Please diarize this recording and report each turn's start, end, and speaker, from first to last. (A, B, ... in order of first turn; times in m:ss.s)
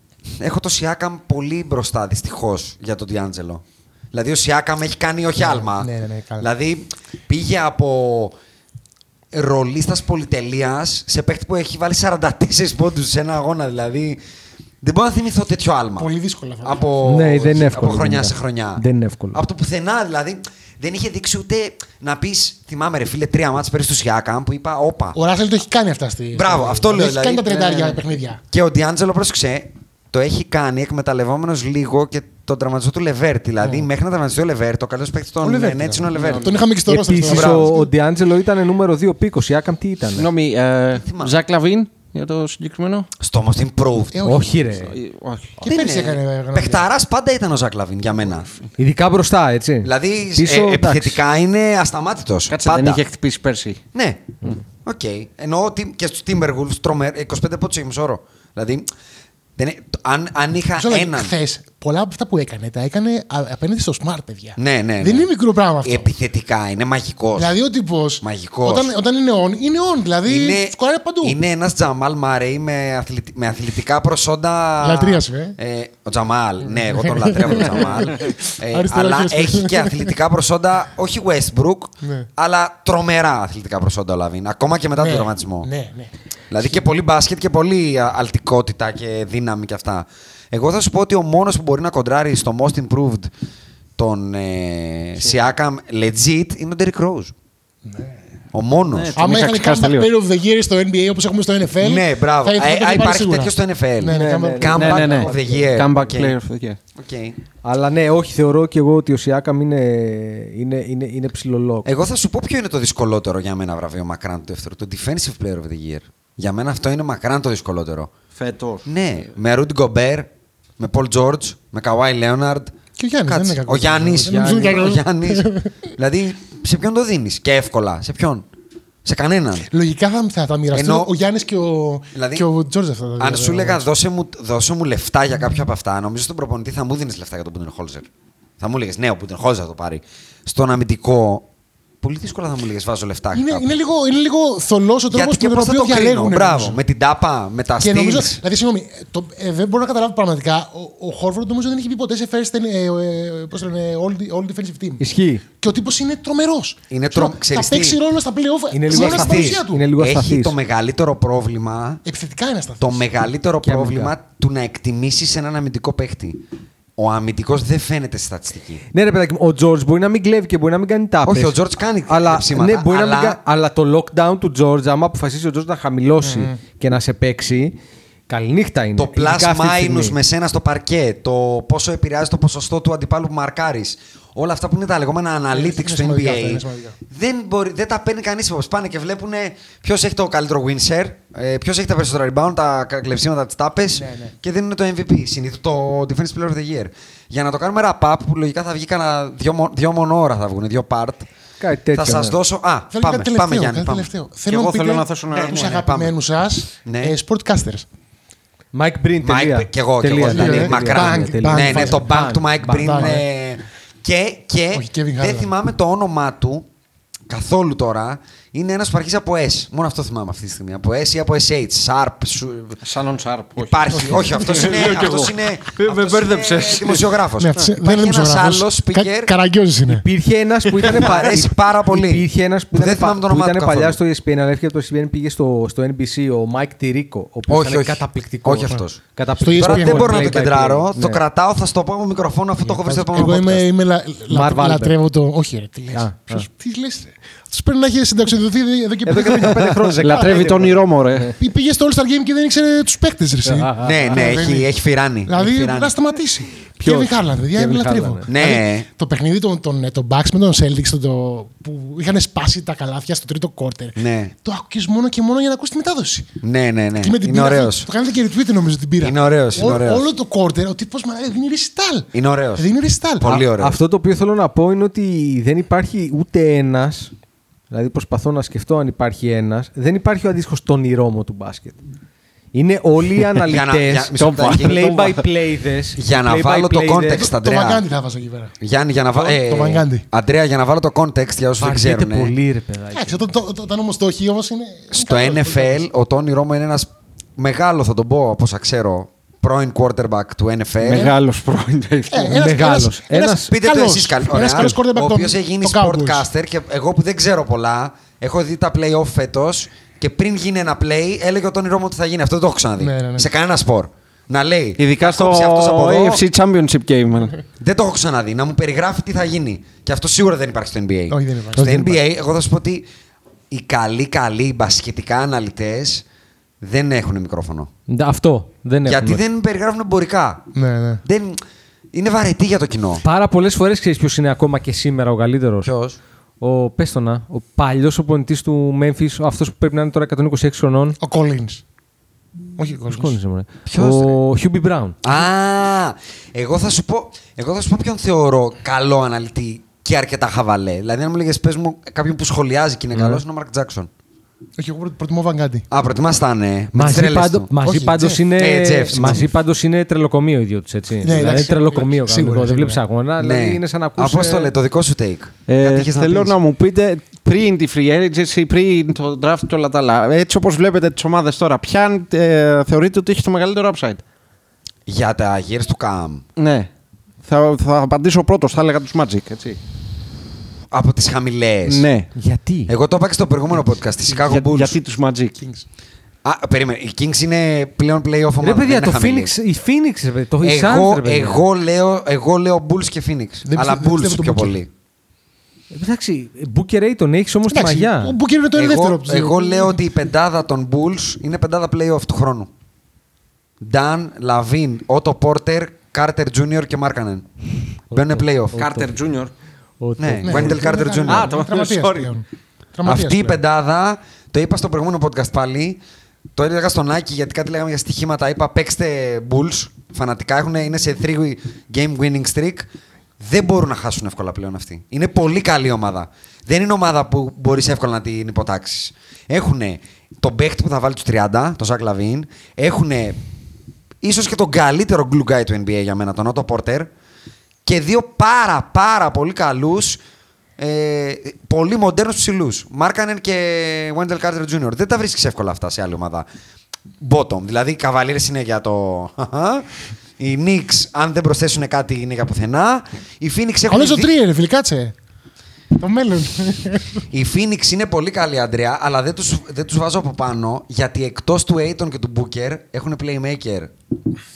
0:00.4-0:08.3 A
0:05.4-0:06.5 B
0:09.3-0:14.2 A
0:14.8-0:16.1 A
0:16.0-0:16.9 B
0:16.6-0:25.2 A
0:17.0-0:19.4 C
0:25.1-0:28.4 B
0:26.3-0:27.5 A
0:27.5-0:28.0 D
0:28.5-0:36.6 A
0:35.4-0:37.9 B
0:36.1-0:36.4 D
0:36.9-0:40.3 C
0:37.2-0:37.8 A
0:40.1-0:43.1 D
0:40.9-0:41.4 A
0:43.2-0:44.2 A
0:44.1-0:44.6 B
0:44.2-0:45.0 C
0:44.6-0:45.6 D
0:45.6-0:46.8 B
0:45.6-0:48.5 A
0:48.8-0:51.2 C
0:49.8-0:53.0 A
0:52.5-0:53.8 D
0:53.9-0:54.2 A
0:54.8-0:58.9 A
0:59.6-1:01.3 A
1:00.8-1:06.1 B
1:04.6-1:05.3 A
1:05.8-1:07.5 A
1:07.4-1:11.4 B
1:08.2-1:08.9 A
1:10.2-1:25.7 A
1:14.8-1:15.6 B
1:16.9-1:20.1 B
1:22.0-1:22.3 B
1:25.0-1:26.1 B
1:26.5-1:33.3 A
1:34.0-1:37.3 A
1:37.9-1:38.2 B
1:38.5-1:39.2 A
1:38.9-1:40.1 D
1:39.2-1:45.2 B
1:41.8-1:46.4 A
1:44.1-1:45.7 C
1:44.8-1:46.8 D
1:46.9-1:47.4 A
1:47.6-1:51.9 C
1:51.8-1:58.1 A
1:58.4-1:58.8 D
1:58.8-2:02.7 A
2:03.0-2:05.7 B
2:03.2-2:08.4 A
2:04.2-2:04.8 C
2:09.0-2:09.7 A
2:09.7-2:13.9 B
2:10.7-2:11.1 A
2:12.1-2:12.4 A
2:13.2-2:18.1 A
2:18.6-2:21.5 A
2:22.0-2:23.7 A
2:23.3-2:26.8 B
2:25.1-2:28.4 A
2:27.8-2:35.0 B
2:35.0-2:35.4 C
2:35.6-2:39.8 B
2:36.9-2:38.0 A
2:38.7-2:40.5 C
2:38.9-2:42.0 A
2:42.0-2:43.0 B
2:42.8-2:46.4 A
2:43.6-2:44.1 C
2:47.0-2:48.8 A
2:48.9-2:57.7 C
2:51.2-2:53.4 A
2:56.2-2:56.6 B
2:58.3-3:00.2 C
2:59.0-3:21.3 A
3:05.5-3:06.9 B
3:13.9-3:14.3 B
3:21.6-3:22.4 C
3:21.9-3:24.1 A
3:22.9-3:27.8 B
3:24.5-3:25.7 D
3:25.3-3:26.1 A
3:26.8-3:27.1 A
3:28.7-3:33.2 C
3:29.2-3:36.6 A
3:30.3-3:32.2 B
3:32.8-3:33.2 B
3:34.7-3:35.5 B
3:37.3-3:42.8 A
3:42.8-3:47.1 D
3:43.6-3:49.3 A
3:43.9-3:44.8 B
3:47.4-3:50.0 B
3:49.9-4:01.2 C
3:50.6-3:51.2 D
3:50.8-3:54.0 A
3:57.5-4:03.6 A
3:59.4-4:00.3 B
4:02.6-4:10.6 B
4:04.3-4:05.0 C
4:05.9-4:06.4 C
4:09.1-4:11.3 C
4:09.6-4:09.9 A
4:10.0-4:11.3 D
4:11.3-4:14.7 B
4:13.4-4:14.0 C
4:13.8-4:15.9 A
4:15.2-4:26.3 B
4:16.8-4:18.2 C
4:18.3-4:18.8 A
4:24.0-4:24.3 A
4:26.4-4:27.9 A
4:27.0-4:33.3 B
4:29.0-4:30.1 A
4:32.1-4:32.6 A
4:33.2-4:33.8 A
4:33.2-4:37.1 C
4:37.7-4:41.8 C
4:42.5-4:47.3 C
4:43.4-4:45.2 A
4:44.2-4:45.2 D
4:46.0-4:47.8 A
4:47.1-4:48.5 B
4:48.6-4:52.3 A
4:49.2-4:50.0 B
4:51.6-4:53.3 C
4:52.9-4:55.8 B
4:54.9-5:01.1 A
5:00.8-5:02.4 D
5:02.1-5:06.3 B
5:02.3-5:03.5 C
5:03.5-5:16.2 A
5:12.8-5:13.3 B
5:14.8-5:17.4 D
5:17.6-5:22.9 A
5:21.1-5:22.0 B
5:23.5-5:26.0 A
5:26.6-5:27.7 A
5:27.9-5:29.2 C
5:28.8-5:30.5 A
5:30.5-5:31.0 B
5:31.0-5:31.4 A
5:31.9-5:33.0 A
5:33.0-5:35.7 C
5:35.6-5:36.0 A
5:36.4-5:41.0 C
5:41.0-5:41.6 B
5:42.6-5:43.2 B
5:42.9-5:45.0 C
5:43.7-5:44.2 A
5:45.0-5:53.9 A
5:52.9-5:53.2 C
5:54.6-5:55.6 B
5:55.7-5:57.5 A
5:56.7-6:04.5 C
5:57.6-5:58.2 B
5:58.3-5:59.3 A
6:01.0-6:02.8 B
6:01.2-6:01.9 D
6:03.2-6:06.4 A
6:05.5-6:14.0 D
6:14.9-6:16.2 A
6:16.4-6:16.7 D
6:17.2-6:19.6 D
6:20.7-6:21.8 A
6:21.7-6:22.1 D
6:22.2-6:22.7 C
6:22.7-6:24.8 A
6:24.1-6:25.4 D
6:26.2-6:29.3 A
6:28.4-6:31.4 C
6:30.4-6:34.7 A
6:33.4-6:34.6 B
6:35.7-6:38.2 C
6:37.5-6:39.8 B
6:38.5-6:42.5 A
6:43.6-6:47.3 A
6:47.9-6:48.6 A
6:47.9-6:48.9 C
6:48.5-6:49.3 D
6:49.8-6:50.6 C
6:50.0-6:51.3 A
6:50.2-6:53.4 B
6:51.0-6:52.2 D
6:52.8-6:55.8 A
6:56.4-7:02.7 A
7:03.2-7:13.2 A
7:14.0-7:16.9 A
7:17.6-7:20.0 A
7:20.6-7:26.2 A
7:27.0-7:29.6 A
7:30.2-7:34.1 A
7:33.7-7:34.9 B
7:35.7-7:37.0 B
7:37.1-7:43.7 A